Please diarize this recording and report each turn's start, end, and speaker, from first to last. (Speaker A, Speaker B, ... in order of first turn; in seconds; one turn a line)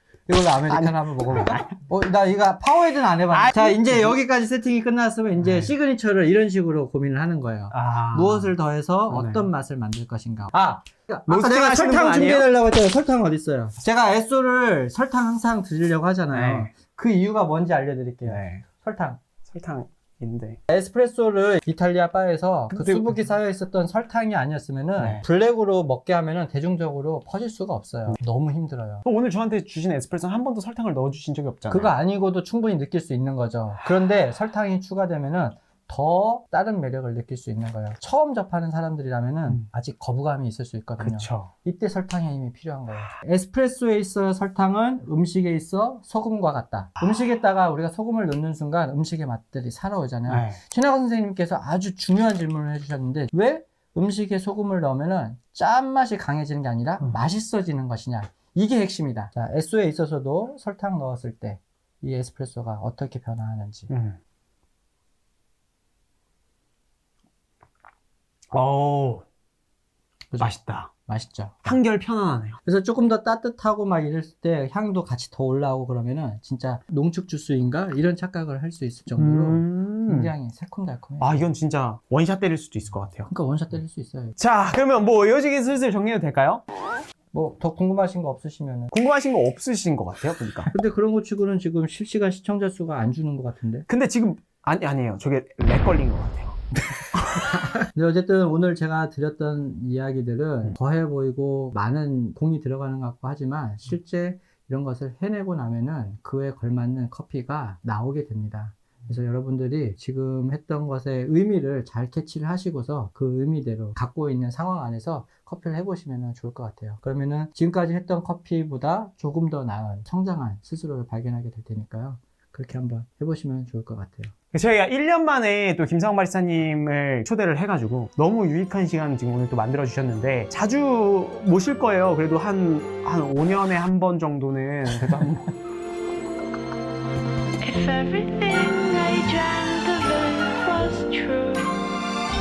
Speaker A: 0.3-19.2
Speaker B: 0.7-1.7
Speaker B: 3.3-4.2
Speaker B: 5.4-5.7
Speaker B: 7.7-8.5
Speaker B: 9.1-9.4
Speaker B: 11.3-12.5
Speaker B: 16.3-16.7
Speaker B: 18.2-18.6
Speaker B: 19.4-20.6
Speaker A: 20.7-29.0
Speaker B: 22.7-23.1
Speaker B: 25.0-25.2
Speaker B: 29.0-31.9
Speaker A: 31.7-63.9
Speaker B: 41.0-41.5
Speaker B: 50.3-50.6
Speaker B: 63.9-64.2
Speaker B: 68.5-69.2
Speaker B: 70.4-70.9
Speaker A: 71.0-71.8
Speaker B: 71.7-72.6
Speaker A: 72.6-81.4
Speaker B: 79.2-80.3
Speaker B: 81.2-83.3
Speaker A: 83.3-84.3
Speaker B: 84.4-86.6
Speaker A: 87.3-88.9
Speaker B: 88.9-90.7
Speaker A: 90.7-93.8
Speaker B: 93.9-96.6
Speaker A: 97.3-124.3
Speaker B: 124.5-135.5
Speaker C: 137.6-141.8